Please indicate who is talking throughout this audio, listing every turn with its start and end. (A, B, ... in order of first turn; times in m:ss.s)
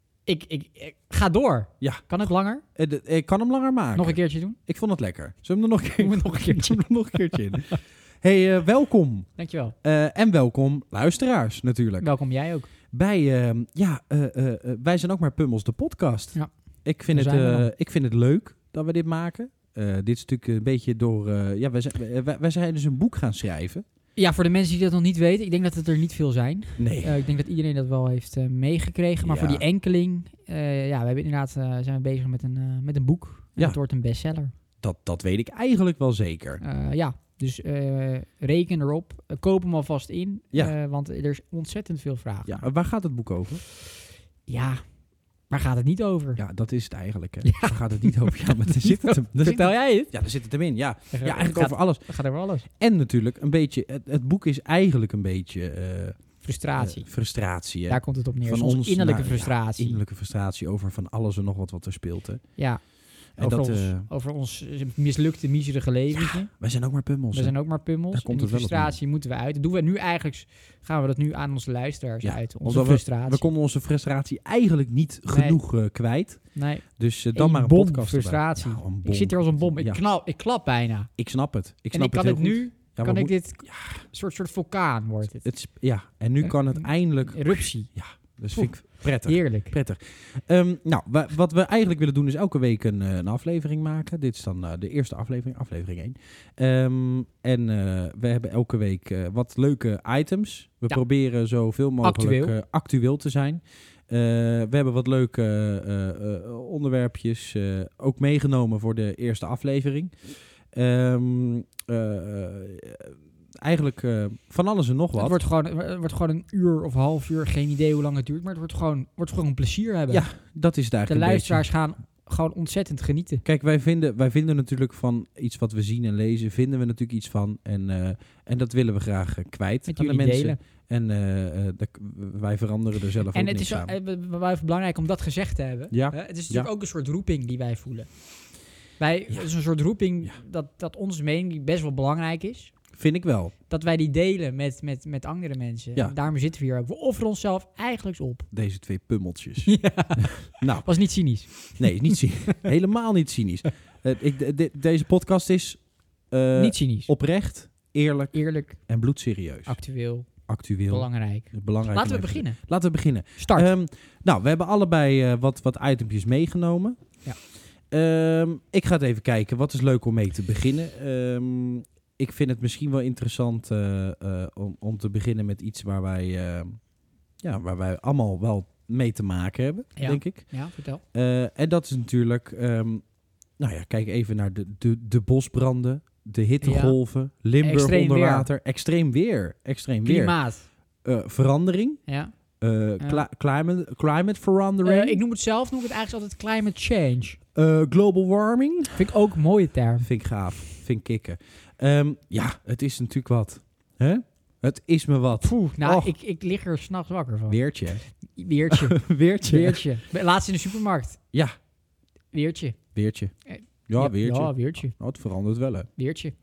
0:00.2-0:02.6 A
0:01.8-0:02.1 B
0:02.7-0:09.3 B
0:03.9-0:04.6 A
0:06.0-0:07.8 A
0:09.4-0:09.7 A
0:09.8-0:12.1 B
0:12.0-0:12.7 A
0:12.9-0:23.8 B
0:17.1-0:17.7 A
0:24.2-0:34.5 A
0:26.8-0:27.2 B
0:29.2-0:29.6 B
0:34.8-0:36.6 B
0:36.6-0:42.7 A
0:42.4-0:43.6 B
0:44.4-0:44.8 A
0:45.5-0:46.4 A
0:46.4-0:52.1 B
0:47.4-0:50.1 A
0:51.1-0:52.7 A
0:52.7-1:02.5 B
0:56.4-0:57.1 A
0:57.9-1:00.0 A
1:02.6-1:06.5 A
1:03.4-1:04.1 B
1:06.2-1:09.0 B
1:07.3-1:13.5 A
1:12.2-1:20.0 B
1:15.3-1:15.6 A
1:16.5-1:21.1 A
1:21.2-1:24.0 B
1:21.9-1:25.5 A
1:25.4-1:50.2 B
1:26.4-1:27.9 A
1:28.5-1:29.7 A
1:42.0-1:42.5 A
1:50.7-1:55.4 B
1:55.2-2:00.2 A
2:00.1-2:01.7 B
2:01.1-2:03.4 A
2:03.4-2:13.9 B
2:09.9-2:10.6 A
2:13.3-2:18.3 A
2:15.9-2:16.7 B
2:19.0-2:22.7 A
2:22.9-2:23.5 B
2:23.7-2:28.5 A
2:28.5-2:31.0 B
2:29.6-2:32.6 A
2:31.6-2:39.7 B
2:36.6-2:37.1 A
2:38.3-2:38.8 A
2:39.6-2:40.3 A
2:40.4-2:47.0 B
2:40.9-2:42.6 A
2:43.4-2:43.7 A
2:47.9-2:56.8 B
2:57.4-3:00.5 B
3:00.0-3:01.0 A
3:01.1-3:03.0 B
3:03.6-3:10.4 B
3:06.6-3:07.0 A
3:07.6-3:08.5 A
3:10.0-3:10.6 A
3:11.0-3:12.0 B
3:12.1-3:12.3 A
3:12.6-3:15.2 B
3:13.0-3:13.2 A
3:14.8-3:17.4 A
3:17.5-3:19.1 B
3:18.9-3:20.1 A
3:20.0-3:26.1 B
3:25.4-3:27.6 A
3:27.5-3:28.0 B
3:28.1-3:31.2 A
3:28.7-3:29.8 B
3:32.3-3:32.8 A
3:32.9-3:33.3 B
3:33.4-3:34.9 A
3:33.9-3:35.9 B
3:36.0-3:36.3 A